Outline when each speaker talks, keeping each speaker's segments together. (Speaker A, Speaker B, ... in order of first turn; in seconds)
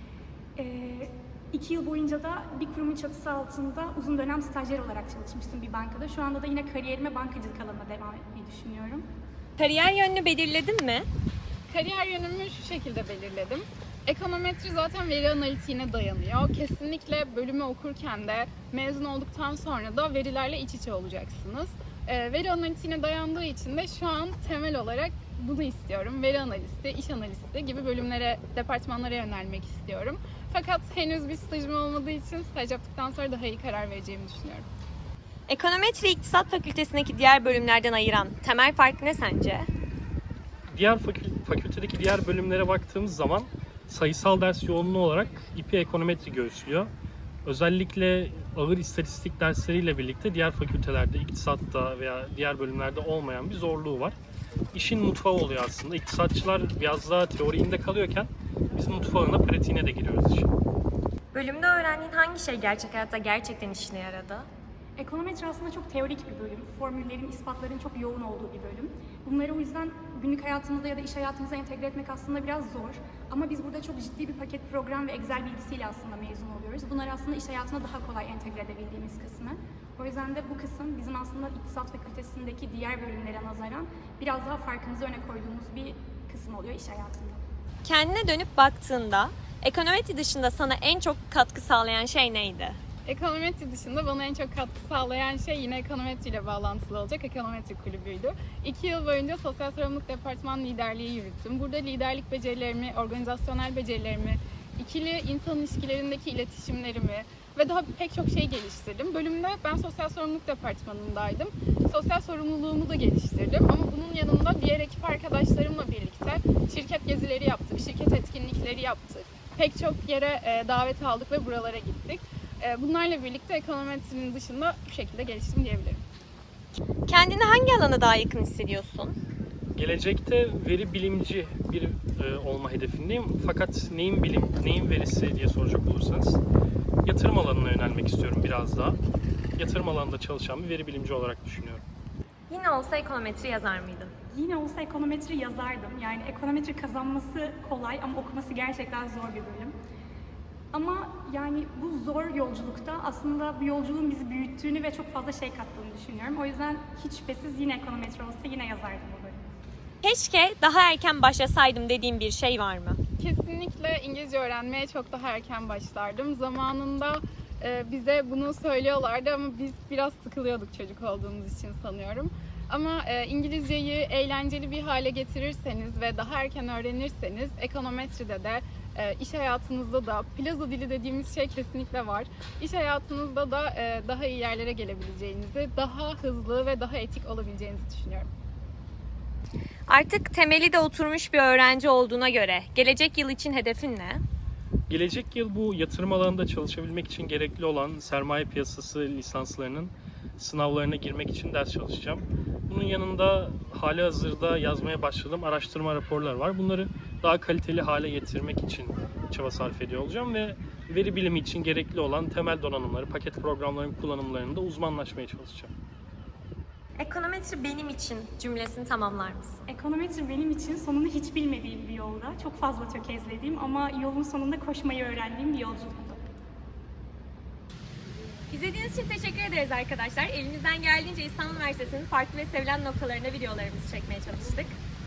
Speaker A: 0.6-9.1, 65.0-87.4, 144.3-149.8, 150.7-159.4, 219.7-226.2
Speaker B: 9.6-11.1, 35.5-39.6, 61.4-64.4, 87.9-92.8, 127.1-129.1, 142.5-144.1, 160.1-163.0, 189.9-194.2, 217.0-219.5, 228.5-234.7
Speaker C: 11.7-34.6, 93.1-126.0, 163.2-188.3
Speaker D: 40.7-46.9, 47.5-54.2, 54.7-60.5, 129.8-136.4, 137.1-139.0, 139.6-141.8, 194.9-215.7